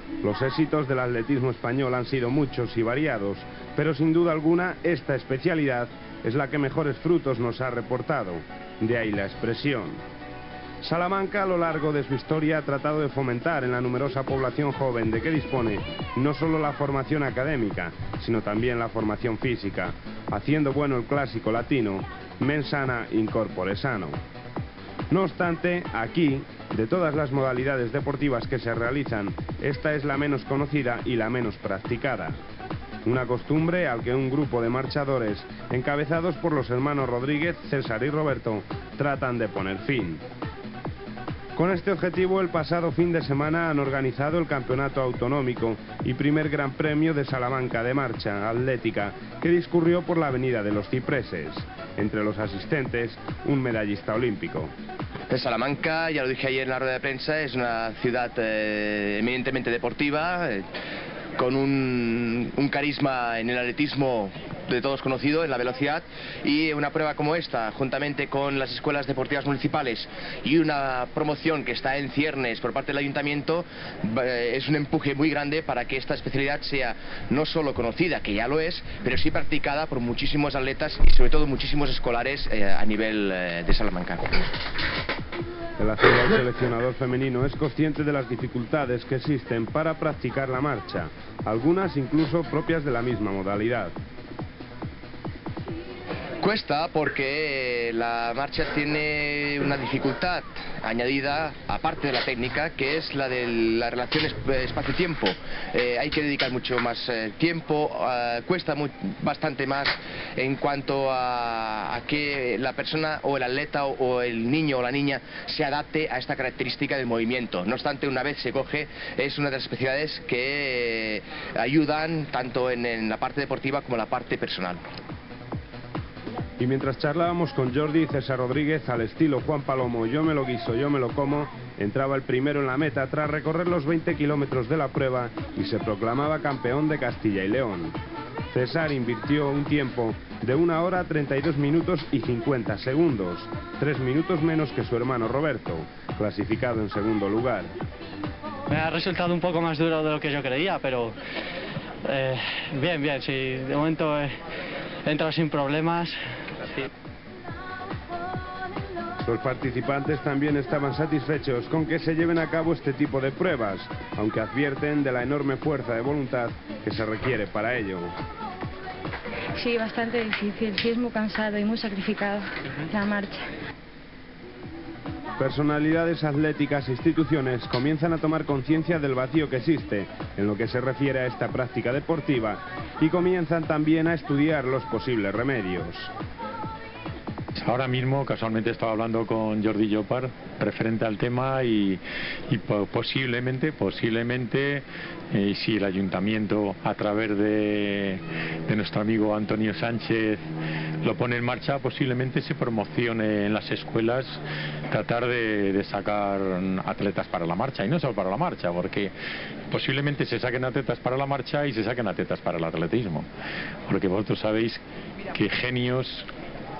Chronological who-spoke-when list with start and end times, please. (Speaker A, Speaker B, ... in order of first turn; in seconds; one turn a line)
Speaker A: 0.2-10.0
Speaker A: 10.8-24.2
Speaker A: 25.1-32.4
Speaker A: 33.0-40.2
Speaker A: 41.5-54.7
Speaker B: 55.3-60.6
Speaker B: 61.4-84.3
Speaker A: 85.8-93.9
Speaker B: 96.4-124.8
Speaker A: 126.6-138.0
Speaker A: 138.5-147.7
Speaker C: 148.7-151.2
Speaker C: 152.1-154.3
Speaker C: 155.1-156.2
Speaker A: 159.2-168.1
Speaker D: 169.5-173.4
Speaker A: 175.4-186.1
Speaker E: 187.6-200.4
Speaker E: 201.0-209.1
Speaker E: 209.7-213.3
Speaker E: 213.9-214.8
Speaker E: 215.3-216.3